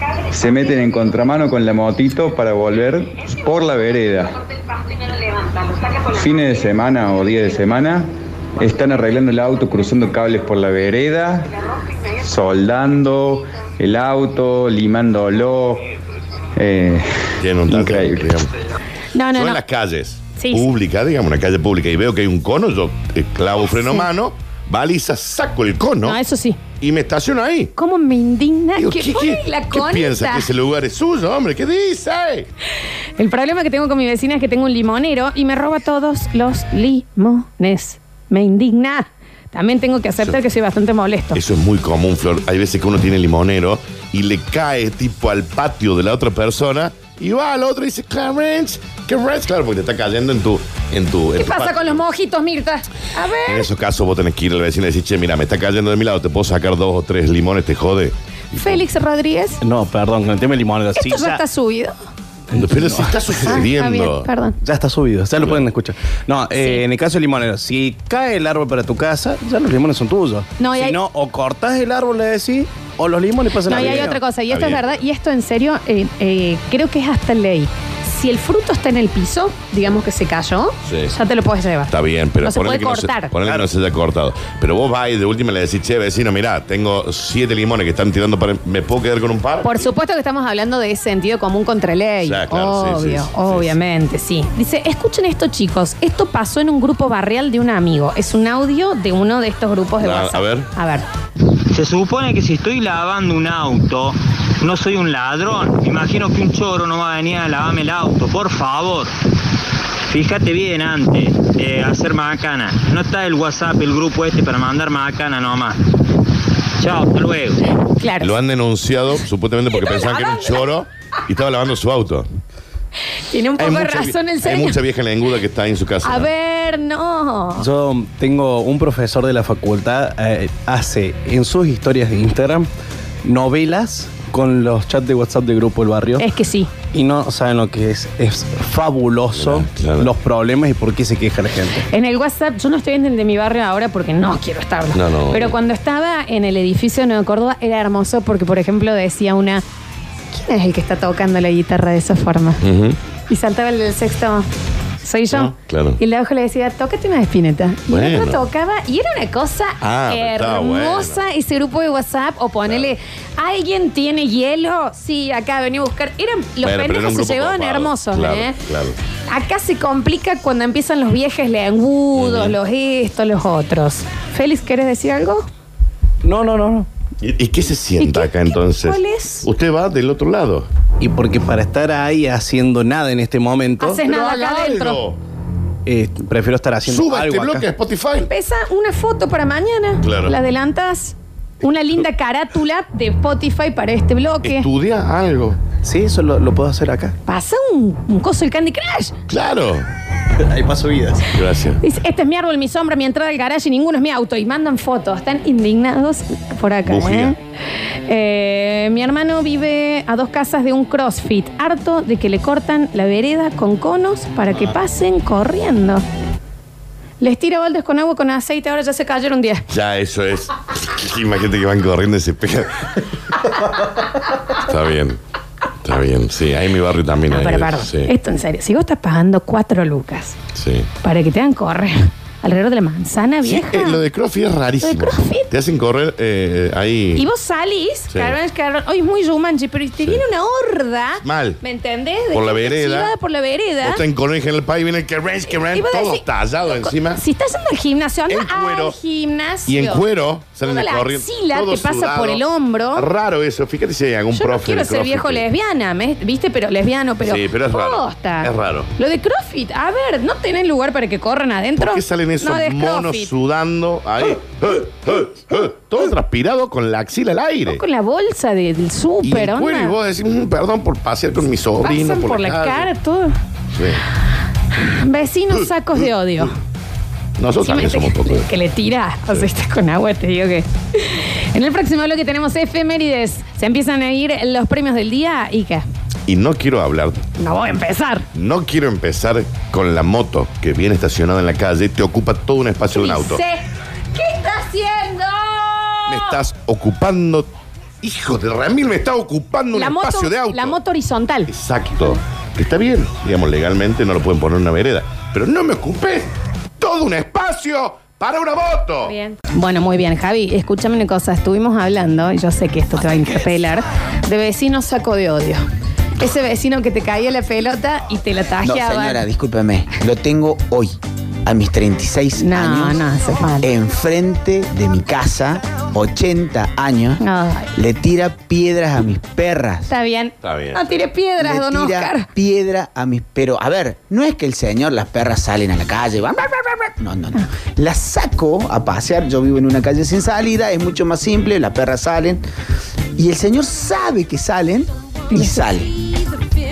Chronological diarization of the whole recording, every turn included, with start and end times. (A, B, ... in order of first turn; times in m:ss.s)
0:00.3-0:04.4 A
0:06.1-0:11.5 A
0:12.2-0:15.9 A
0:16.6-0:18.4 A
0:17.4-0:18.5 B
0:19.1-0:19.6 C
0:19.3-0:26.2 B
0:20.4-0:20.7 C
0:23.6-0:24.1 C
0:26.0-0:26.6 C
0:26.8-0:27.7 B
0:27.8-0:30.5 C
0:28.8-0:32.5 B
0:33.2-0:41.4 C
0:41.3-0:52.0 B
0:51.4-0:53.7 C
0:53.5-0:58.8 B
0:58.5-0:59.6 C
0:59.6-1:01.4 D
1:01.0-1:02.0 C
1:02.5-1:03.2 D
1:02.5-1:04.3 B
1:03.4-1:04.6 C
1:04.6-1:14.2 D
1:05.4-1:05.6 B
1:06.6-1:06.8 C
1:10.6-1:11.0 C
1:13.7-1:23.4 C
1:13.9-1:14.9 B
1:20.8-1:21.2 B
1:21.9-1:29.8 B
1:29.6-1:41.1 C
1:32.2-1:33.8 B
1:40.0-1:40.7 B
1:41.7-1:49.1 E
1:50.1-1:55.8 E
1:56.8-1:57.6 E
1:58.0-1:58.4 C
1:58.2-2:02.3 B
1:59.7-2:00.7 C
2:03.1-2:04.8 C
2:03.6-2:06.3 B
2:06.0-2:07.7 C
2:07.6-2:12.7 D
2:13.2-2:16.3 D
2:16.2-2:16.7 C
2:16.9-2:21.9 D
2:19.3-2:20.1 B
2:21.9-2:29.6 C
2:24.9-2:25.6 B
2:30.3-2:32.6 C
2:32.6-2:33.0 B
2:33.3-2:34.5 C
2:35.0-2:48.6 C
2:35.3-2:36.0 B
2:37.9-2:38.4 B
2:39.8-2:41.2 B
2:42.6-2:42.9 B
2:46.6-2:49.0 B
2:49.3-2:55.5 C
2:52.2-2:52.6 B
2:56.2-2:56.9 D
2:57.2-3:00.7 B
2:58.0-2:59.5 C
3:01.0-3:04.0 D
3:03.8-3:05.0 C
3:04.0-3:05.2 B
3:05.9-3:07.7 D
3:06.8-3:08.3 B
3:08.3-3:14.7 C
3:10.0-3:10.3 B
3:14.4-3:15.6 B
3:15.8-3:17.2 D
3:17.3-3:19.2 C
3:19.3-3:19.9 B
3:20.4-3:21.3 D
3:21.3-3:21.8 B
3:21.8-3:27.4 C
3:26.9-3:27.4 B
3:28.1-3:36.0 C
3:37.2-3:39.7 C
3:39.7-3:43.0 B
3:44.6-3:45.2 B
3:45.8-3:48.1 B
3:47.3-3:50.4 C
3:50.5-3:50.9 B
3:51.0-3:54.0 C
3:53.4-3:57.3 B
3:54.8-3:55.5 C
3:57.2-4:04.0 C
3:58.1-3:58.4 B
4:01.2-4:01.6 B
4:02.3-4:03.1 B
4:03.8-4:07.2 B
4:05.7-4:10.0 C
4:08.3-4:09.0 B
4:09.7-4:12.4 B
4:10.6-4:13.0 C
4:12.9-4:15.5 B
4:14.3-4:23.3 C
4:17.2-4:18.9 B
4:21.8-4:27.8 B
4:27.7-4:30.0 C
4:29.2-4:32.9 B
4:31.8-4:33.4 C
4:33.7-4:34.0 B
4:34.7-4:36.5 C
4:35.6-4:36.5 B
4:37.4-4:38.5 B
4:37.6-4:45.8 C
4:46.3-4:47.2 B
4:47.4-4:48.3 C
4:48.3-4:53.4 B
4:52.9-4:53.6 C
4:54.1-4:56.4 C
4:56.1-4:57.5 B
4:58.0-5:00.8 B
4:59.7-5:01.5 C
5:01.5-5:09.1 B
5:09.0-5:15.6 C
5:16.2-5:19.2 C
5:18.6-5:23.0 F
5:22.4-5:23.7 C
5:23.6-5:27.2 F
5:27.2-5:27.7 C
5:27.8-5:29.9 F
5:29.9-5:32.3 C
5:30.4-5:30.8 B
5:31.4-5:42.4 F
5:43.2-5:45.9 F
5:45.3-5:45.8 C